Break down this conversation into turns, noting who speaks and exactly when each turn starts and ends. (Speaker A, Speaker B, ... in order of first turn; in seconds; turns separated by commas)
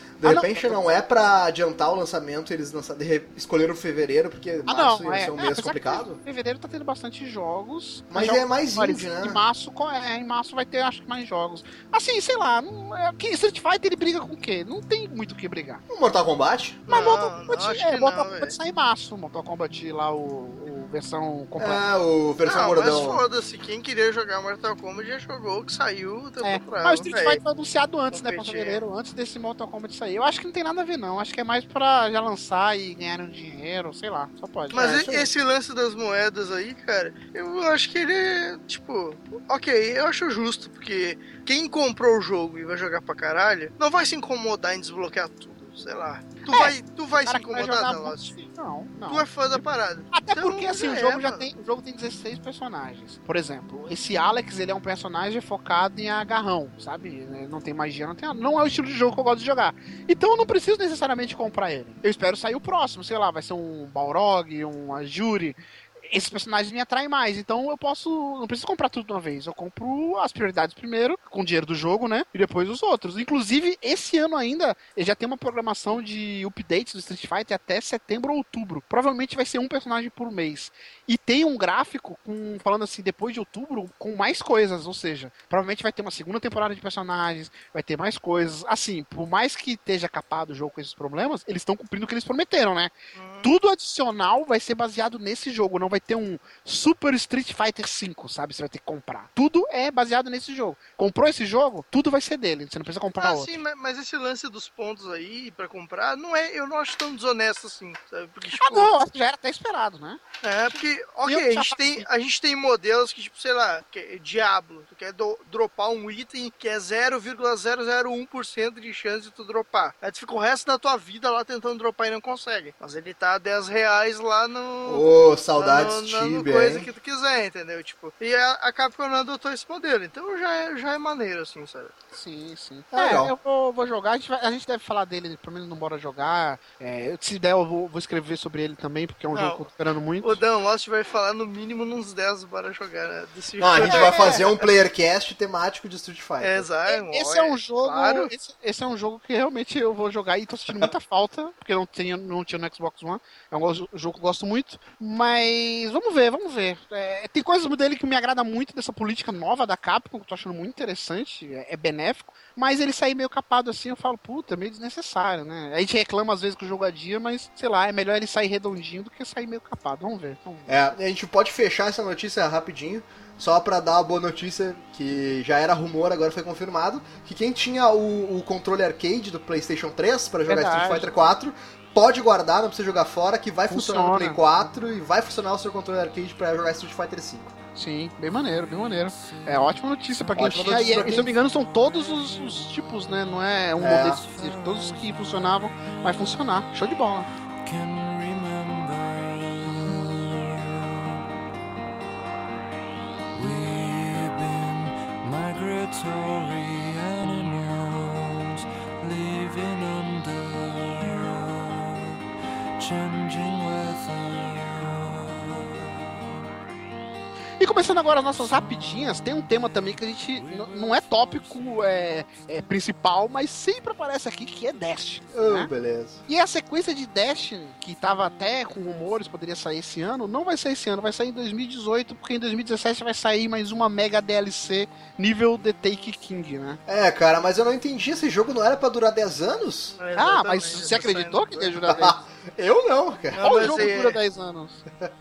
Speaker A: 0.2-6.2, Speaker B: 0.2-0.8, Speaker B: 4.7-15.8, Speaker A: 8.1-9.4, Speaker A: 15.9-16.8, Speaker C: 16.9-18.6, Speaker B: 16.9-21.8, Speaker A: 21.6-23.2, Speaker C: 22.4-27.4, Speaker B: 26.4-35.1, Speaker C: 28.1-28.8, Speaker A: 34.7-35.3, Speaker C: 34.7-48.4, Speaker B: 46.5-49.6, Speaker C: 49.1-51.5, Speaker B: 50.1-103.5, Speaker C: 93.2-93.5, Speaker C: 103.2-108.9, Speaker B: 108.5-112.1, Speaker C: 110.4-131.9, Speaker A: 124.8-126.9, Speaker B: 132.2-140.4, Speaker A: 132.9-133.3, Speaker C: 139.3-139.7, Speaker C: 140.2-144.7, Speaker A: 143.6-146.7, Speaker B: 143.8-144.5, Speaker C: 146.4-148.3, Speaker B: 146.9-170.8, Speaker A: 170.7-187.5, Speaker B: 180.5-181.1, Speaker B: 183.7-184.4, Speaker B: 187.8-197.3, Speaker D: 188.5-191.3, Speaker A: 190.3-191.3, Speaker A: 193.8-194.2, Speaker D: 194.2-195.3, Speaker D: 197.6-201.2, Speaker D: 203.3-212.2, Speaker D: 212.8-216.4, Speaker B: 217.6-225.7, Speaker D: 220.1-222.1, Speaker A: 225.3-226.2, Speaker B: 226.3-236.8, Speaker A: 236.9-240.0, Speaker C: 240.0-242.1, Speaker B: 240.2-242.2, Speaker A: 241.9-243.9, Speaker C: 243.3-244.2, Speaker B: 243.4-244.8